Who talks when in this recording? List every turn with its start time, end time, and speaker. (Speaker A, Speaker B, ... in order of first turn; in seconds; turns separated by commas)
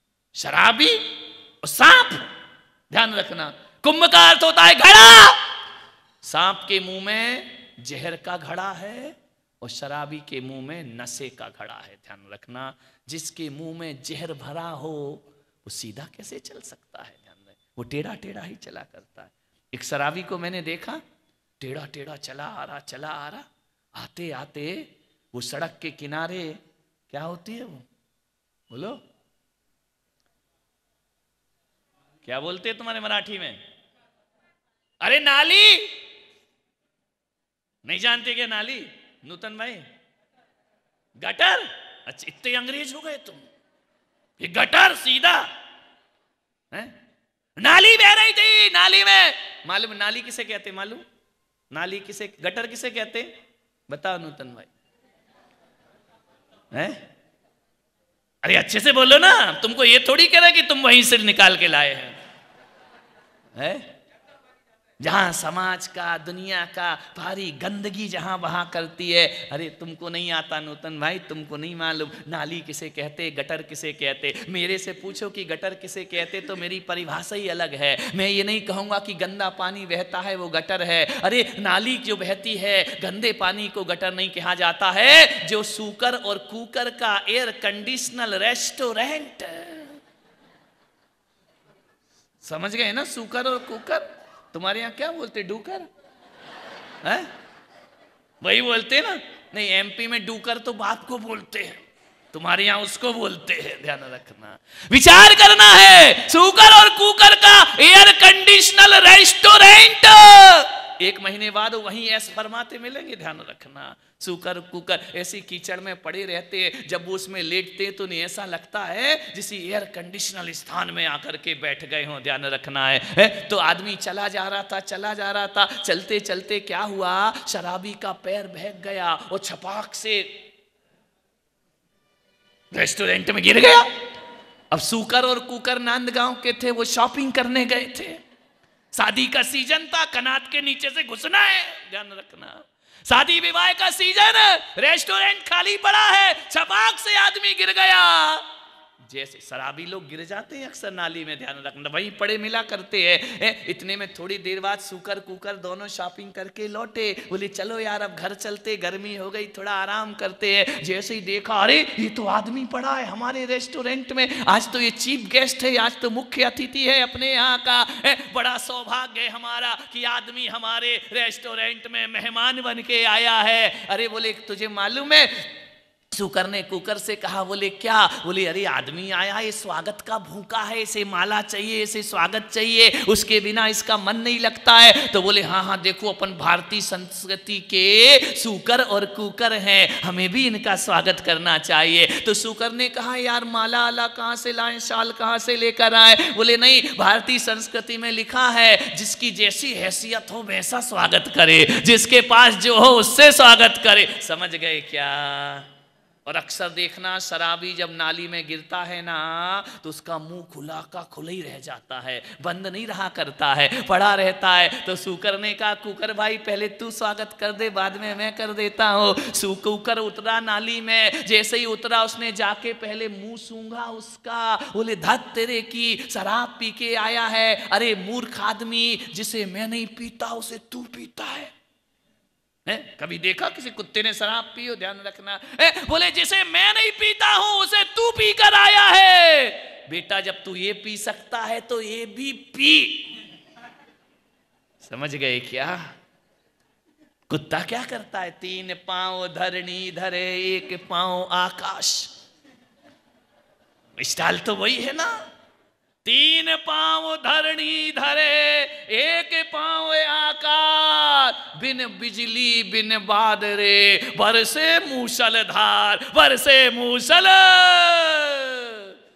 Speaker A: 0.3-2.2, Speaker A: 2.9-5.4, Speaker A: 6.2-21.0, Speaker A: 21.6-27.9, Speaker A: 28.7-29.0, Speaker A: 32.2-33.6, Speaker A: 35.0-35.9, Speaker A: 37.8-39.9, Speaker A: 41.2-43.5, Speaker A: 44.4-45.5, Speaker A: 47.6-51.0, Speaker A: 51.7-53.4, Speaker A: 53.9-54.7, Speaker A: 56.7-57.0, Speaker A: 58.4-62.2, Speaker A: 63.5-63.9, Speaker A: 65.0-90.0, Speaker A: 92.4-95.9, Speaker A: 97.0-97.3, Speaker A: 98.4-130.4, Speaker A: 132.7-133.9, Speaker A: 134.7-138.2, Speaker A: 138.9-148.4, Speaker A: 149.0-175.5, Speaker A: 176.1-205.7, Speaker A: 206.2-231.5, Speaker A: 232.7-243.2, Speaker A: 244.8-245.9, Speaker A: 247.3-252.1, Speaker A: 254.0-255.2, Speaker A: 256.0-268.9